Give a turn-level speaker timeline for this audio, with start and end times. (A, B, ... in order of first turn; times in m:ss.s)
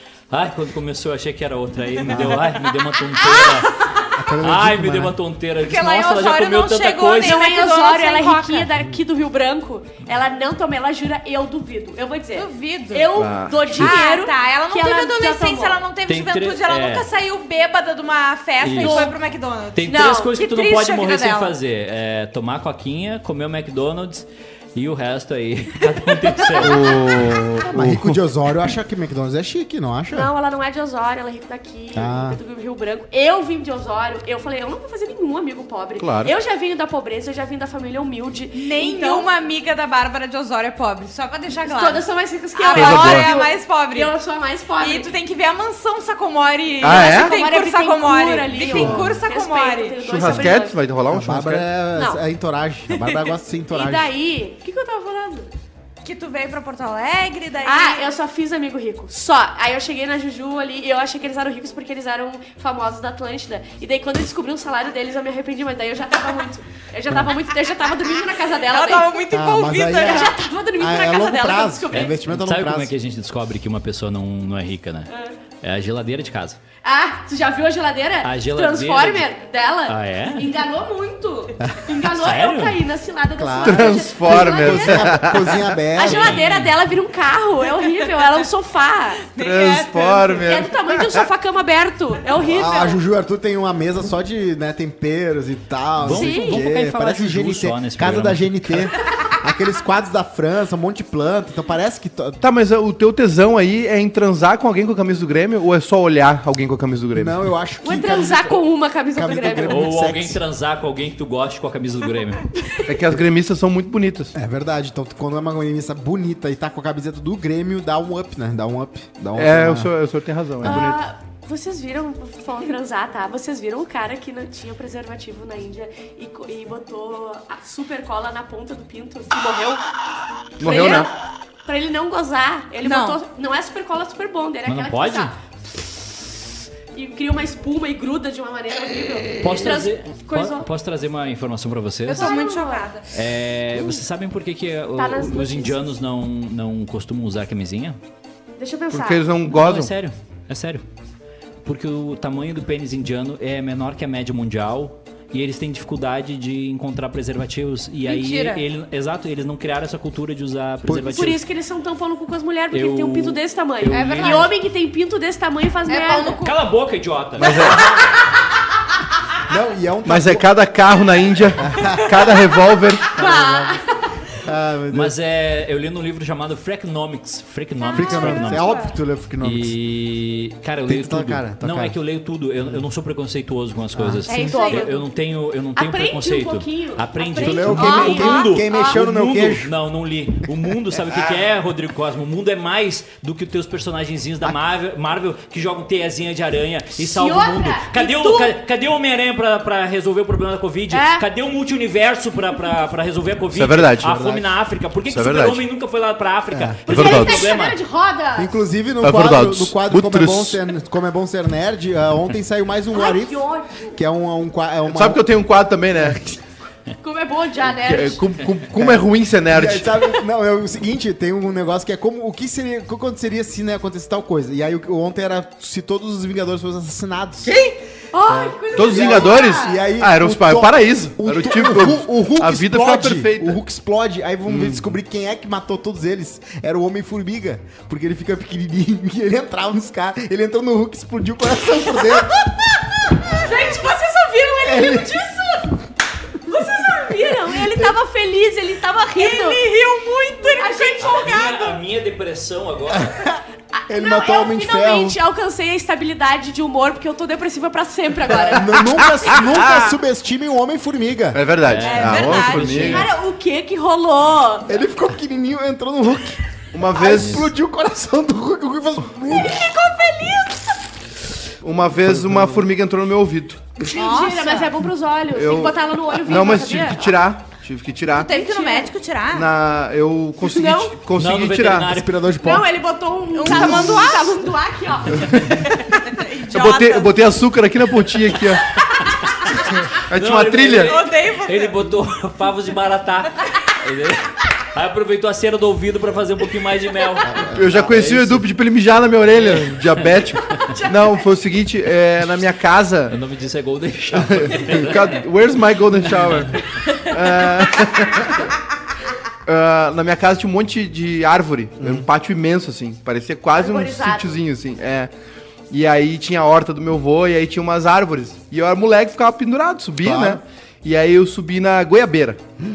0:00.3-0:03.8 A
0:02.1-0:02.4 B
0:02.1-0:04.2 C
0:04.2-0:05.2 B
0:04.4-0:07.5 A
0:05.6-0:08.7 C
0:07.2-0:15.8 D
0:12.3-0:13.1 C
0:13.1-0:13.7 E
0:13.7-0:21.6 C
0:16.0-0:17.1 A
0:18.6-0:19.1 A
0:18.7-0:19.2 D
0:19.8-0:27.0 A
0:19.8-0:20.3 D
0:26.6-0:28.2 E
0:27.6-0:30.3 B
0:30.1-0:39.3 D
0:31.9-0:32.4 B
0:36.0-0:36.3 E
0:38.5-0:44.1 C
0:41.6-0:45.1 D
0:42.7-0:43.3 E
0:44.8-0:50.0 C
0:46.8-0:47.3 E
0:46.8-0:50.8 D
0:48.7-0:49.1 B
0:50.0-0:51.7 E
0:50.2-0:50.5 B
0:51.1-0:54.1 B
0:51.9-0:52.2 D
0:53.7-0:55.5 D
0:56.0-0:58.1 C
0:57.6-1:09.2 D
1:08.6-1:10.4 C
1:09.3-1:12.9 B
1:10.0-1:12.2 D
1:11.9-1:15.1 A
1:15.1-1:15.4 D
1:15.6-1:16.6 A
1:16.8-1:25.2 D
1:18.2-1:19.3 A
1:19.9-1:20.5 A
1:22.0-1:22.8 A
1:23.4-1:26.4 B
1:23.6-1:25.8 E
1:25.9-1:29.2 D
1:26.0-1:26.8 A
1:29.3-1:30.5 C
1:29.4-1:31.3 E
1:30.4-1:33.0 D
1:32.4-1:42.4 B
1:36.0-1:38.9 A
1:36.1-1:36.6 D
1:42.4-1:47.4 E
1:47.1-1:50.4 B
1:47.8-1:49.8 D
1:49.6-1:52.5 A
1:52.8-1:54.3 E
1:54.3-1:59.9 B
1:59.4-2:01.0 E
2:00.6-2:00.9 B
2:00.6-2:09.8 D
2:10.6-2:11.1 E
2:10.6-2:11.1 D
2:11.6-2:15.4 D
2:12.8-2:13.2 C
2:14.6-2:15.3 A
2:16.9-2:20.7 D
2:19.4-2:22.4 A
2:22.0-2:23.1 C
2:22.1-2:22.9 D
2:23.1-2:28.0 A
2:25.0-2:25.9 D
2:28.6-2:29.2 D
2:28.9-2:29.9 E
2:29.5-2:30.8 A
2:31.6-2:41.4 A
2:38.0-2:38.6 C
2:40.8-2:41.3 B
2:41.1-2:46.4 D
2:42.7-2:44.5 A
2:43.9-2:44.5 C
2:45.9-2:46.6 C
2:46.4-2:48.1 A
2:47.4-2:48.0 E
2:49.5-2:50.4 B
2:50.0-2:53.1 E
2:51.6-2:52.0 B
2:53.1-2:53.9 D
2:53.1-2:53.8 B
2:54.4-2:55.1 B
2:54.9-2:58.8 A
2:57.8-2:58.9 C
2:57.9-2:59.7 B
2:59.4-3:27.8 A
3:00.9-3:02.0 B
3:03.9-3:04.2 B
3:04.3-3:05.0 D
3:04.3-3:04.9 C
3:05.7-3:09.0 D
3:07.4-3:08.3 C
3:07.4-3:09.7 B
3:17.0-3:18.5 D
3:20.9-3:21.2 D
3:23.5-3:24.1 E
3:24.0-3:24.5 B
3:25.1-3:25.6 E
3:26.5-3:26.8 B
3:26.8-3:28.6 D
3:26.9-3:27.4 E
3:28.4-3:35.2 B
3:29.0-3:30.6 E
3:32.9-3:34.0 D
3:34.9-3:36.2 E
3:36.0-3:36.4 B
3:37.0-3:38.2 D
3:37.8-3:40.2 E
3:38.7-3:47.6 B
3:48.1-3:49.8 D
3:48.3-4:03.6 B
3:48.7-3:53.6 E
3:54.5-3:54.8 E
4:03.3-4:05.8 D
4:04.6-4:05.3 B
4:06.4-4:09.6 D
4:06.5-4:08.0 B
4:09.1-4:11.7 C
4:10.4-4:11.7 D
4:11.0-4:13.3 A
4:13.7-4:19.0 D
4:13.9-4:15.2 B
4:18.4-4:21.4 B
4:18.8-4:19.9 E
4:21.3-4:23.1 E
4:21.6-4:23.1 A
4:21.8-4:23.0 C
4:22.8-4:24.8 D
4:24.7-4:29.6 B
4:26.7-4:27.5 E
4:27.0-4:27.5 A
4:29.2-4:30.8 D
4:31.6-4:33.8 E
4:32.0-4:32.7 B
4:33.8-4:37.2 D
4:33.9-4:34.8 C
4:35.3-4:38.3 E
4:38.1-4:39.5 C
4:38.2-4:38.9 D
4:39.3-4:41.9 E
4:40.4-4:41.0 D
4:41.2-4:42.3 A
4:41.9-4:42.7 B
4:42.4-4:45.5 D
4:43.3-4:44.4 C
4:43.5-4:44.1 B
4:45.6-4:47.2 C
4:46.5-4:48.6 E
4:48.6-4:49.3 C
4:50.1-4:51.0 E
4:50.1-4:58.4 A
4:50.8-4:51.8 C
4:57.2-4:58.3 B
4:57.5-5:03.2 E
4:59.4-5:00.8 A
5:03.1-5:05.2 A
5:04.1-5:08.5 E
5:06.3-5:06.6 A
5:09.4-5:15.1 E
5:11.8-5:12.1 B
5:13.6-5:14.4 D
5:15.7-5:22.4 E
5:20.0-5:20.4 B